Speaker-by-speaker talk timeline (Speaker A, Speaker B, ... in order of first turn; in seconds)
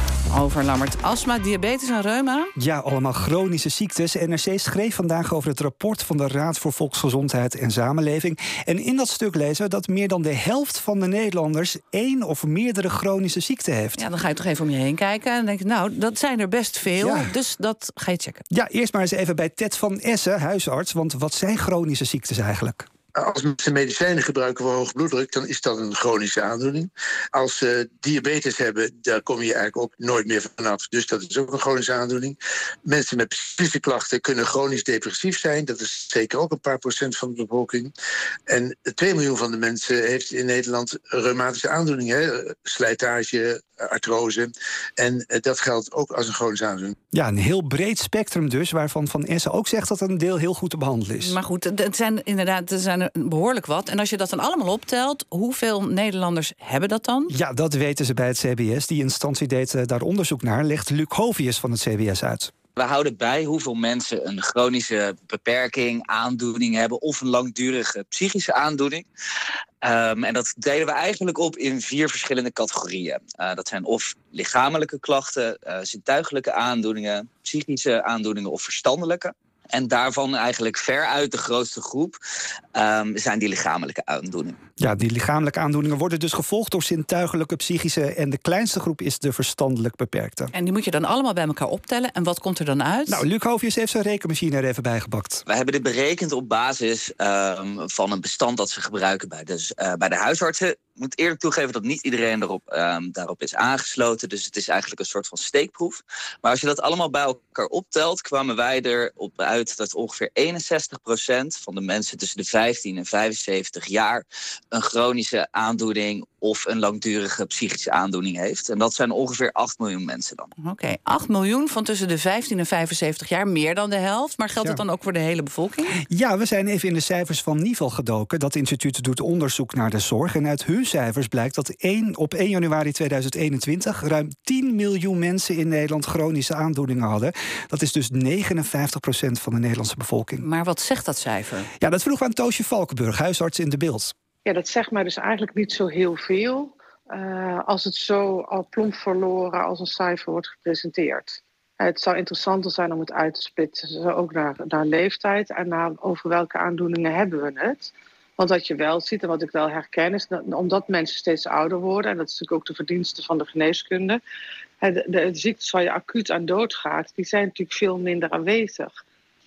Speaker A: 0.3-2.5, 13.9-18.4, 51.2-57.3, 90.5-93.2, 120.6-126.0, 140.4-141.7
Speaker B: 2.6-14.0, 16.9-17.4, 18.5-22.9, 47.1-51.4, 57.3-62.5, 84.8-90.5, 93.1-95.4, 126.1-140.4, 141.8-144.1
Speaker C: 23.1-37.9, 38.5-46.9
Speaker D: 62.8-69.0, 69.8-82.2, 82.7-84.6, 95.5-120.5
Speaker E: 144.4-164.2, 164.8-168.9